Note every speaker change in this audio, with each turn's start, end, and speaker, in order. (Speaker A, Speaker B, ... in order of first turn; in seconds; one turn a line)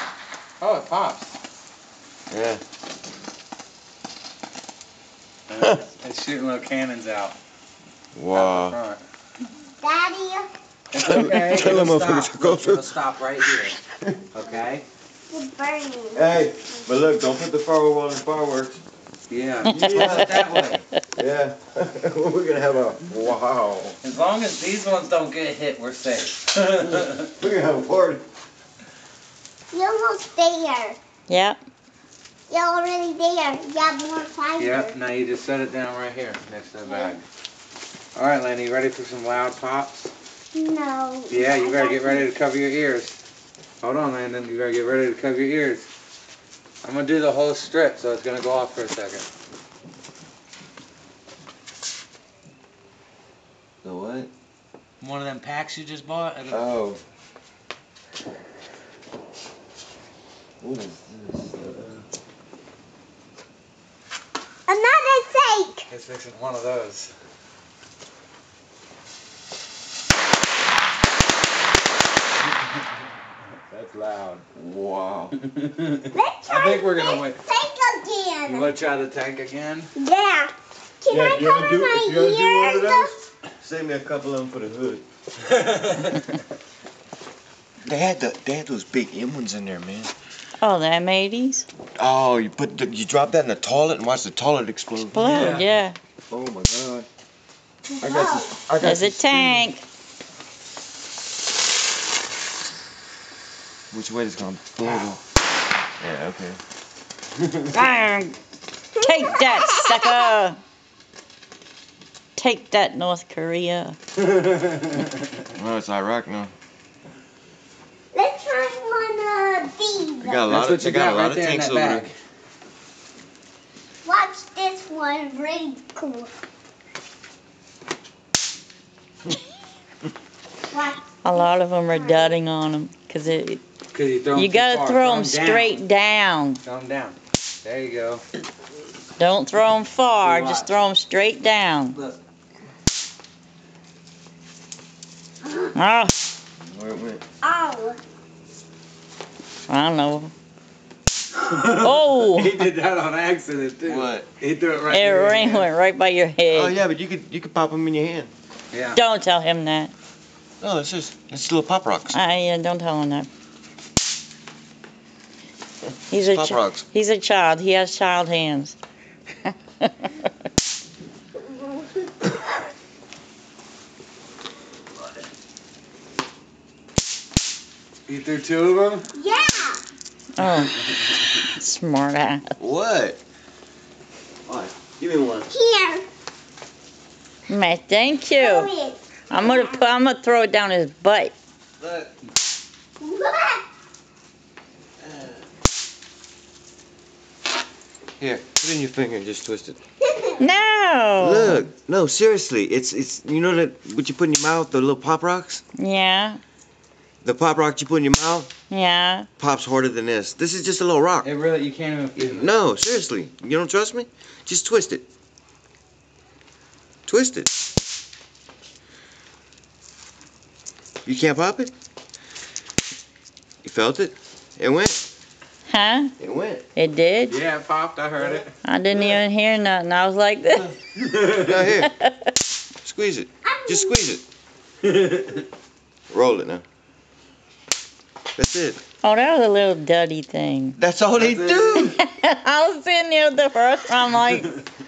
Speaker A: 0.6-1.4
Speaker B: 2.3-2.6
Speaker A: 5.5-7.4
Speaker B: 8.2-8.8
Speaker A: 8.3-9.0
Speaker C: 9.8-10.5
Speaker A: 10.9-13.8
Speaker B: 11.0-13.0
Speaker A: 14.3-14.8
Speaker C: 15.3-16.3
Speaker B: 16.1-18.8
Speaker A: 19.3-20.8
Speaker D: 19.6-20.4
Speaker B: 19.6-24.0
Speaker A: 24.0-27.3
Speaker B: 27.0-28.2
Speaker C: 29.7-31.0
Speaker D: 31.3-31.6
Speaker C: 32.5-35.0
Speaker A: 34.6-37.2
Speaker C: 36.9-37.2
Speaker A: 38.1-40.1
Speaker C: 40.5-42.3
Speaker A: 41.3-43.2
Speaker A: 43.8-45.9
Speaker A: 46.8-49.2
Speaker B: 53.8-54.3
Speaker A: 55.0-56.7
Speaker B: 56.5-57.0
Speaker B: 60.6-62.0
Speaker C: 64.7-65.9
Speaker A: 65.9-67.1
Speaker A: 73.7-74.4
Speaker B: 74.5-75.3
Speaker A: 75.4-77.4
Speaker C: 76.1-78.7
Speaker A: 78.5-79.9
Speaker C: 80.0-83.1
Speaker B: 81.1-85.0
Speaker A: 85.5-86.3
Speaker B: 87.8-90.1
Speaker D: 90.6-91.7
Speaker B: 92.0-95.6
Speaker D: 95.1-96.0
Speaker A: 95.2-95.7
Speaker B: 96.3-97.1
Speaker C: 97.9-98.6
Speaker B: 98.0-99.7
Speaker D: 98.8-99.8
Speaker B: 103.9-105.2
Speaker B: 106.0-106.6
Speaker D: 107.7-108.4
Speaker D: 109.0-110.6
Speaker C: 109.0-110.3
Speaker D: 112.4-114.0
Speaker A: 114.3-115.1
Speaker B: 115.5-116.5
Speaker C: 118.1-120.4
Speaker B: 120.2-122.1
Speaker A: 120.5-122.2
Speaker C: 124.0-126.3
Speaker C: 130.7-132.4
Speaker D: 131.2-133.6
Speaker A: 133.9-135.8
Speaker D: 134.3-136.6
Speaker A: 136.6-138.2
Speaker D: 139.2-142.0
Speaker A: 140.2-140.9
Speaker C: 145.4-145.7
Speaker D: 145.8-146.1
Speaker B: 146.6-147.2
Speaker C: 147.4-148.0
Speaker D: 149.7-150.3
Speaker A: 151.3-155.7
Speaker D: 151.8-152.6
Speaker B: 153.8-154.3
Speaker D: 154.9-156.8
Speaker B: 156.5-158.3
Speaker A: 158.7-159.0
Speaker D: 158.9-159.9
Speaker B: 160.6-162.2
Speaker D: 162.1-163.3
Speaker B: 166.1-166.8
Speaker D: 166.1-168.8
Speaker D: 169.5-170.1
Speaker A: 178.1-179.1
Speaker C: 179.1-179.8
Speaker D: 180.4-182.6
Speaker A: 180.8-181.1
Speaker B: 182.6-183.2
Speaker B: 184.5-185.5
Speaker C: 185.5-186.1
Speaker D: 187.5-188.7
Speaker C: 188.3-189.8
Speaker D: 189.3-191.3
Speaker B: 191.8-192.1
Speaker C: 193.0-193.6
Speaker B: 195.1-195.3
Speaker B: 198.2-199.8
Speaker C: 200.0-200.4
Speaker D: 200.4-201.6
Speaker B: 201.2-205.6
Speaker D: 205.8-206.4
Speaker B: 207.2-208.5
Speaker D: 208.7-209.3
Speaker B: 209.4-211.3
Speaker A: 211.2-212.5
Speaker B: 212.2-215.1
Speaker B: 217.1-217.5
Speaker B: 221.1-221.7
Speaker B: 223.6-225.0
Speaker D: 225.7-226.1
Speaker B: 226.2-226.6
Speaker D: 226.8-227.4
Speaker A: 227.3-228.6
Speaker D: 228.6-230.8
Speaker A: 231.0-231.6
Speaker B: 231.2-231.9
Speaker D: 231.8-232.1
Speaker B: 232.8-234.2
Speaker C: 233.4-234.1
Speaker A: 234.8-235.4
Speaker B: 236.1-236.6
Speaker B: 238.4-238.8
Speaker D: 239.0-240.8
Speaker B: 240.8-242.0
Speaker A: 241.2-242.0
Speaker D: 241.8-244.5